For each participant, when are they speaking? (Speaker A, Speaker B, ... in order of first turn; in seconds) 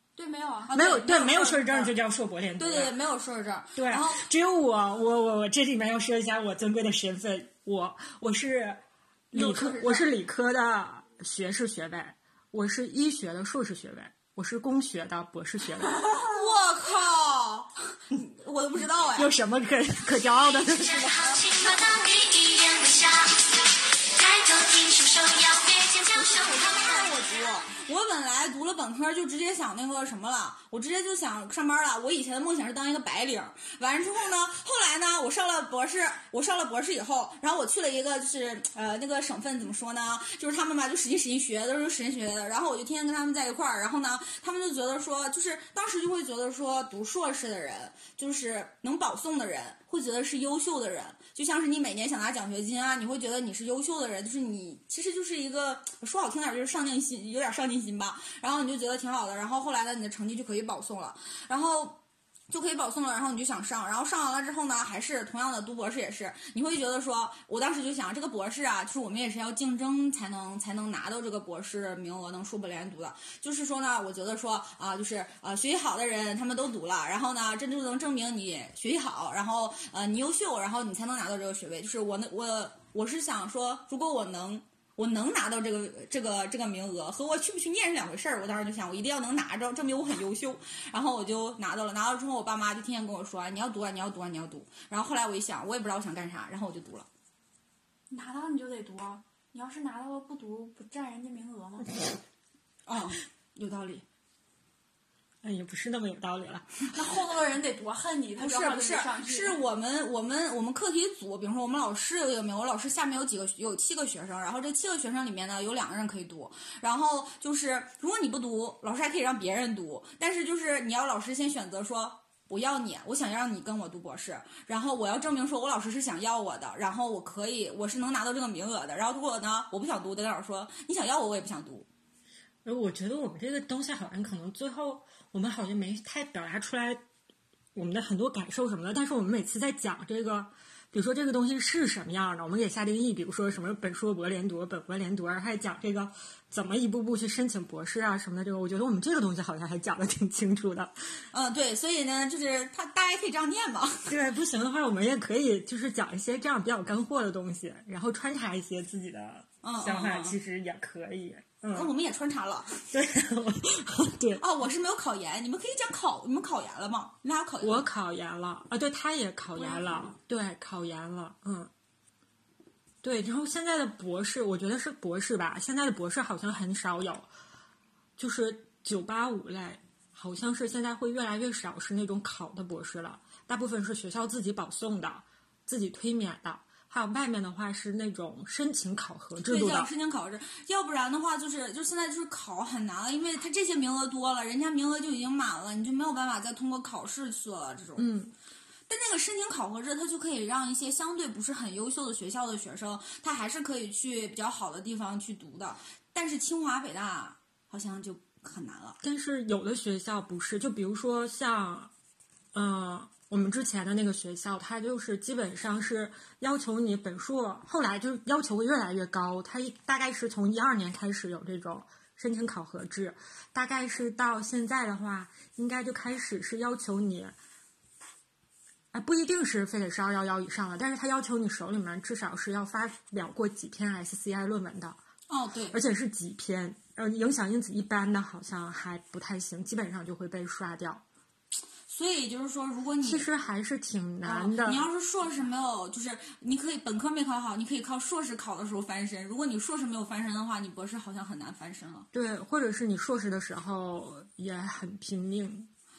Speaker A: 0.2-0.8, 98.1-102.0, 106.9-109.6, 169.6-170.2
Speaker B: 0.7-1.9, 2.6-4.2, 9.3-10.1, 16.1-19.3, 26.1-97.1, 102.9-104.0, 108.4-131.9, 151.3-154.2, 159.6-160.4, 161.7-162.8, 164.4-167.8, 189.4-198.1, 198.9-209.0, 235.3-235.8, 241.9-243.3, 244.2-252.1
Speaker C: 0.7-2.9, 3.8-16.0, 19.1-21.3, 105.4-106.7, 132.6-137.0, 137.7-150.9, 154.1-161.9, 162.9-164.4, 167.6-171.7, 173.0-177.3, 178.2-189.9, 198.0-198.3, 209.0-211.9, 212.5-227.3, 228.9-235.0, 235.7-241.0, 243.0-244.9, 252.1-255.7
Speaker D: 20.6-27.2